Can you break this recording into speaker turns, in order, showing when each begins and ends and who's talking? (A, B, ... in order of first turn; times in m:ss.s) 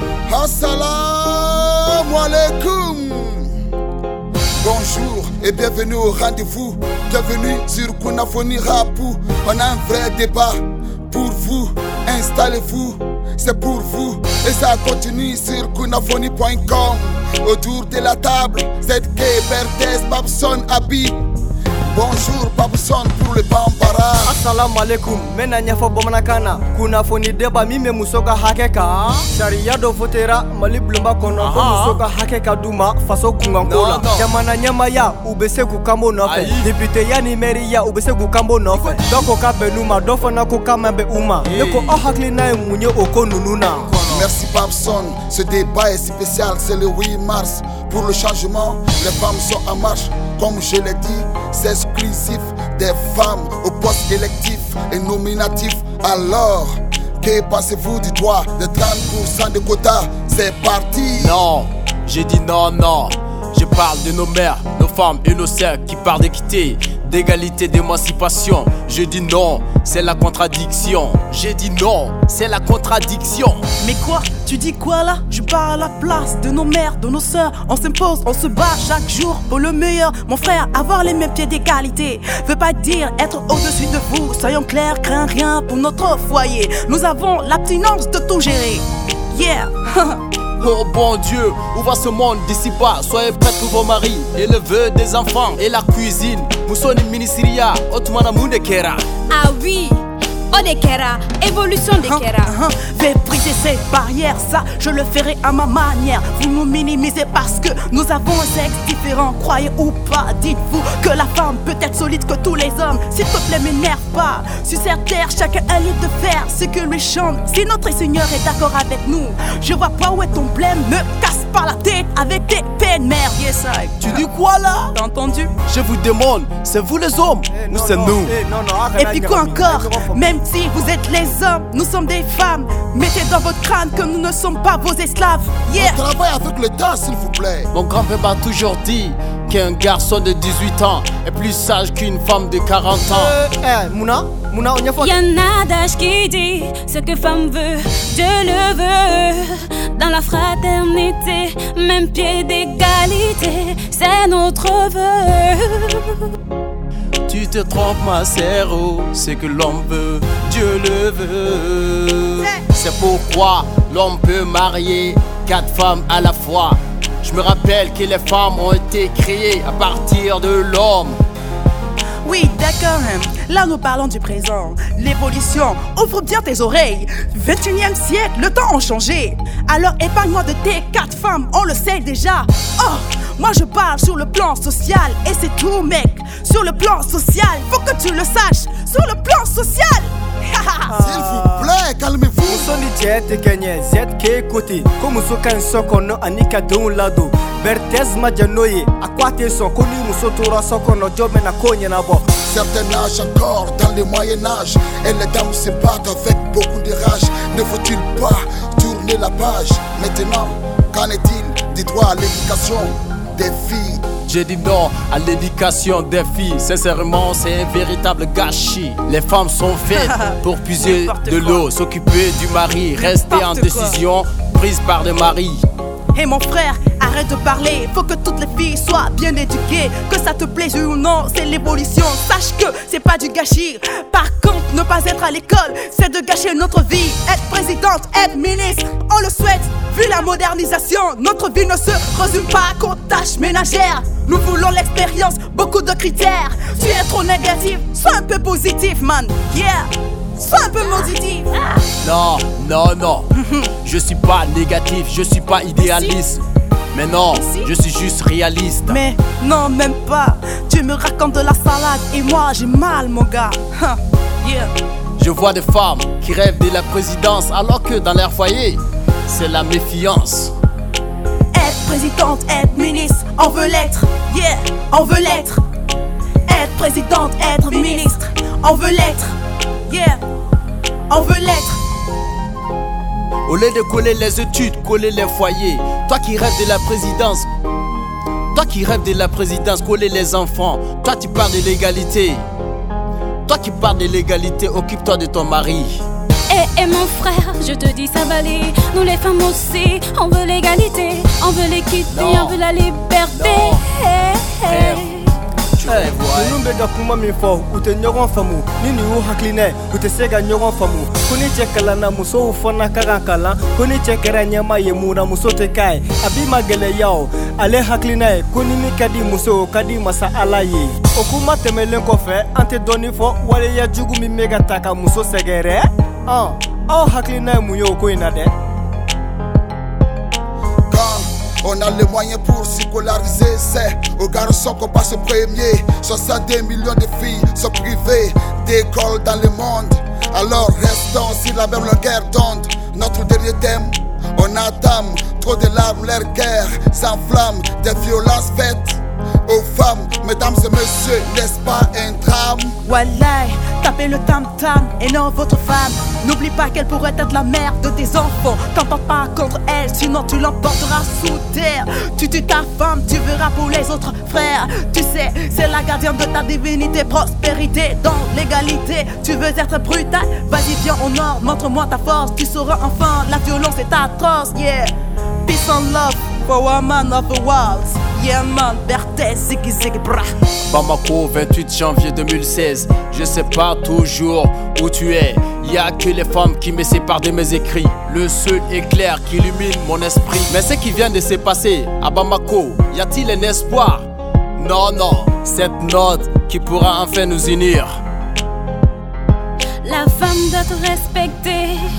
0:00.3-0:03.5 A
0:04.6-0:21.2 A
0:21.9-0:24.4 A
0:24.2-0:43.9 B
0:31.4-0:32.0 C
0:33.6-0:34.3 C
0:36.2-0:36.7 C
0:38.7-0:39.3 C
0:41.4-0:42.0 C
0:43.7-0:44.3 C
0:44.1-1:01.4 A
1:01.2-1:13.6 C
1:13.8-1:30.2 D
1:30.6-1:39.2 C
1:39.3-1:42.6 E
1:42.0-2:04.3 D
2:04.0-2:04.9 C
2:04.8-2:05.5 D
2:05.7-2:08.3 C
2:07.5-2:10.4 B
2:08.9-2:16.0 D
2:15.7-2:17.7 A
2:17.7-2:23.4 C
2:23.1-2:25.2 B
2:25.0-2:36.3 E
2:37.3-2:51.2 C
2:52.2-3:11.0 D
3:10.9-3:11.7 B
3:11.0-3:12.7 A
3:12.4-3:22.3 B
3:22.4-3:34.0 A
3:34.3-3:45.6 C
3:39.9-3:41.6 D
3:42.9-3:44.0 D
3:46.1-4:11.8 D
4:12.0-4:13.3 C
4:13.3-4:13.7 D
4:13.8-4:19.0 C
4:15.7-4:16.2 D
4:17.3-4:17.7 D
4:18.9-4:24.7 D
4:25.2-4:30.5 C
4:31.5-4:35.6 D
4:36.5-4:39.3 D
4:39.9-4:40.2 D
4:41.1-4:41.8 D
4:43.4-4:47.5 C
4:48.5-4:52.4 C
4:53.4-4:56.0 C
4:56.5-5:05.3 E
5:02.1-5:02.6 C
5:03.3-5:03.8 C
5:04.6-5:05.1 C
5:05.7-5:06.6 C
5:05.9-5:28.5 B
5:30.9-5:52.8 A
5:52.8-6:14.9 D
6:15.4-6:20.3 D
6:20.6-6:38.0 C
6:39.8-6:41.8 E